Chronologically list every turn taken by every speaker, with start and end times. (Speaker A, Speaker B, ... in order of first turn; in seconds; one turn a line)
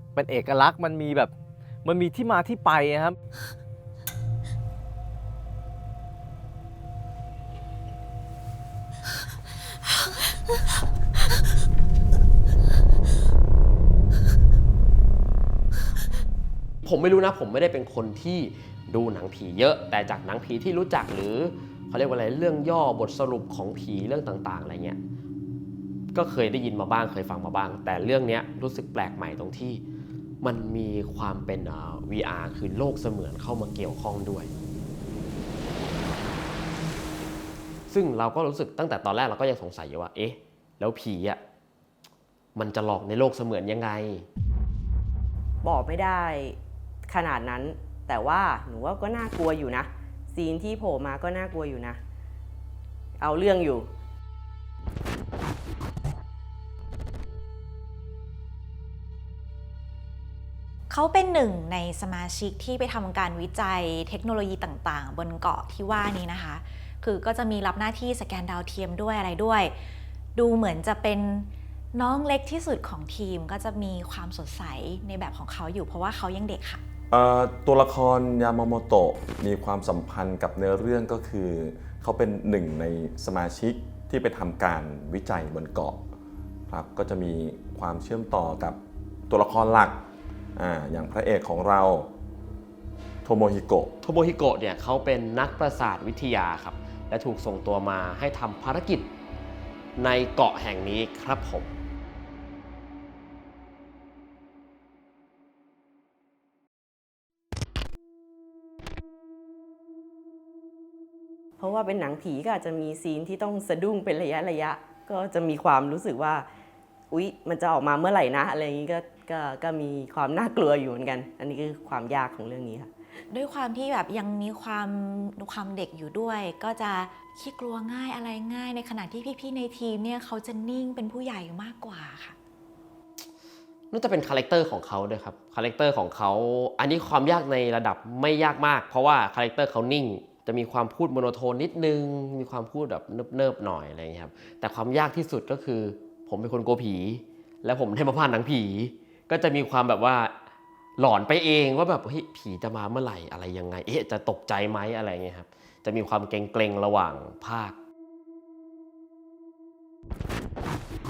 Speaker A: 0.1-1.3
Speaker A: 1.8-3.2
Speaker B: 16.8-25.0
Speaker B: 26.1-29.8
Speaker B: 30.4-34.5
Speaker B: 37.9-41.4
Speaker B: 42.5-44.3
Speaker C: 45.6-52.0
Speaker C: 53.2-53.9
Speaker D: 60.9-69.7
Speaker D: 70.3-76.8
Speaker E: 77.1-86.0
Speaker E: 86.7-88.8
Speaker E: 89.3-90.0
Speaker E: 90.6-92.1
Speaker E: 93.2-93.9
Speaker B: 94.0-99.1
Speaker B: 100.0-101.7
Speaker C: 111.6-116.5
Speaker C: 117.1-122.9
Speaker D: 123.3-132.4
Speaker B: 133.9-150.3
Speaker B: 151.0-157.8